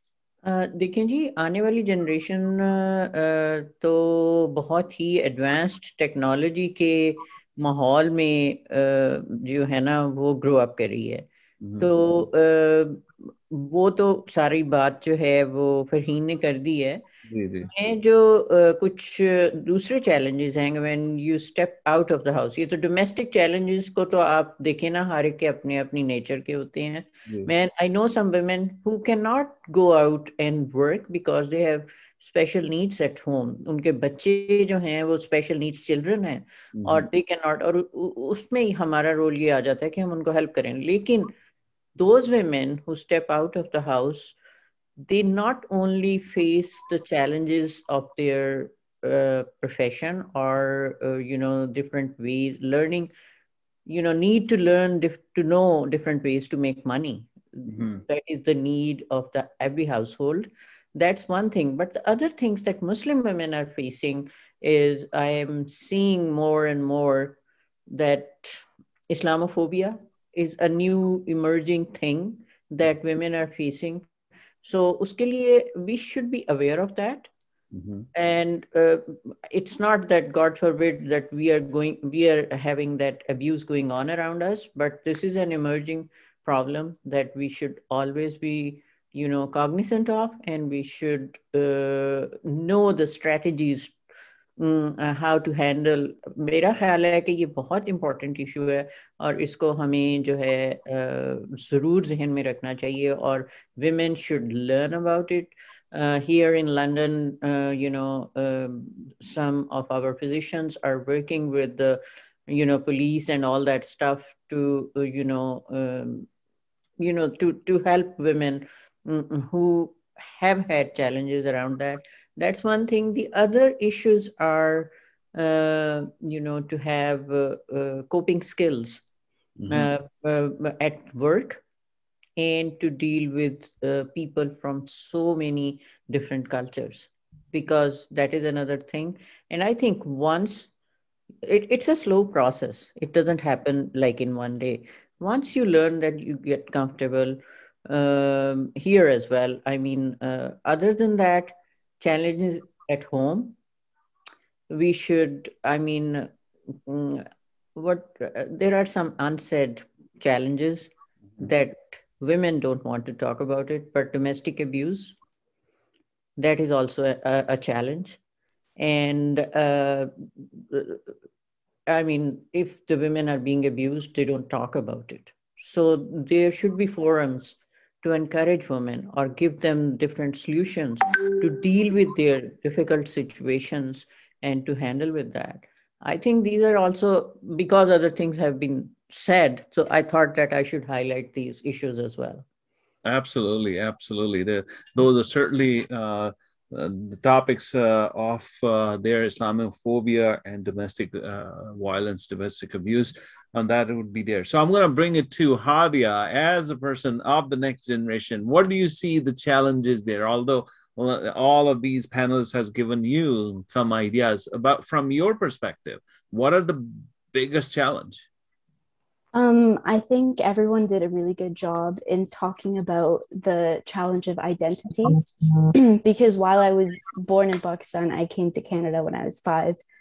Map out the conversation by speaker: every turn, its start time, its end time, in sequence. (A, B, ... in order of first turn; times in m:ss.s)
0:00.4-0:11.3 A
0:11.6-0:11.9 B
0:11.8-0:17.0 A
0:17.3-0:17.7 B
0:17.7-0:41.3 A
0:36.8-0:37.1 B
0:42.0-0:44.4 A
0:45.0-0:53.1 A
0:53.9-1:14.1 A
0:57.7-0:58.0 B
1:14.6-1:17.3 A
1:17.7-1:18.1 B
1:18.1-1:34.0 A
1:34.6-1:56.3 A
1:57.0-2:09.0 A
2:09.6-2:09.9 B
2:09.7-2:11.6 A
2:12.4-2:20.7 A
2:21.4-2:33.6 A
2:34.7-2:45.2 A
2:46.4-2:48.2 A
2:48.8-2:51.0 A
2:51.9-3:12.5 A
3:13.0-3:38.2 B
3:39.3-3:49.8 C